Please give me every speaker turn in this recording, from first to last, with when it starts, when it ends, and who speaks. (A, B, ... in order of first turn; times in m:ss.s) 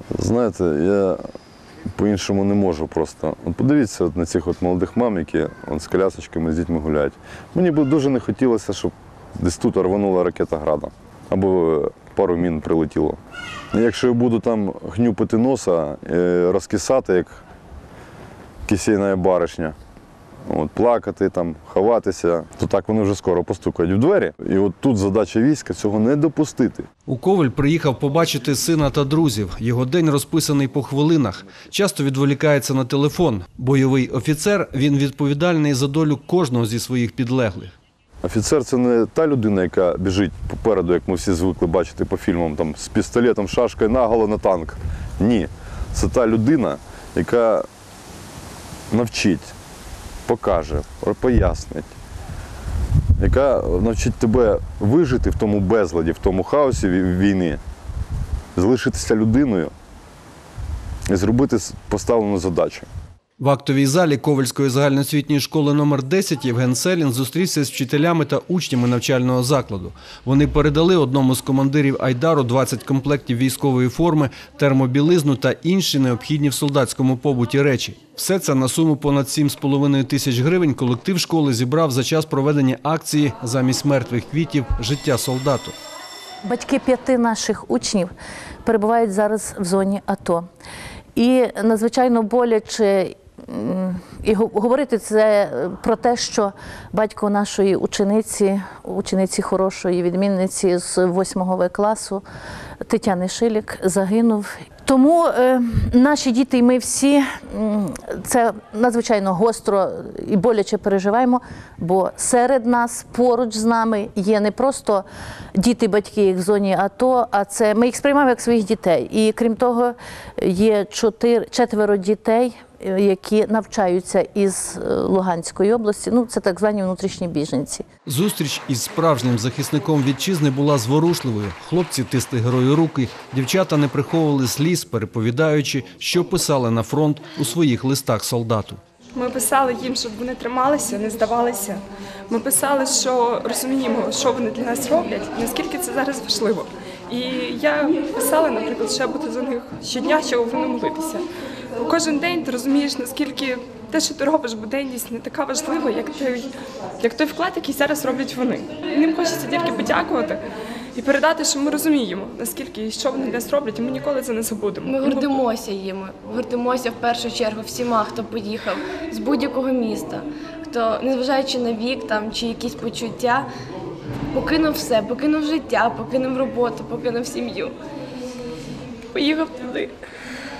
0:00.2-0:01.2 A
0:02.0-0:13.2 A
0:13.7-0:17.4 A
0:18.7-0:19.8 A
0:20.5-0:26.9 A
0:27.1-0:37.7 B
0:38.2-0:47.7 A
0:48.9-0:49.5 A
0:50.3-0:51.9 A
0:53.2-0:57.6 A
0:58.6-0:59.7 A
1:01.1-1:02.9 A
1:03.4-1:25.8 B
1:26.4-1:28.1 C
1:28.6-1:30.4 C
1:31.2-1:42.2 C
1:42.9-2:07.8 C
2:08.1-2:18.8 B
2:19.1-2:31.3 D
2:31.8-2:40.4 D
2:41.0-2:45.4 D
2:44.9-2:53.5 E
2:54.3-2:57.8 E
2:59.1-3:00.0 E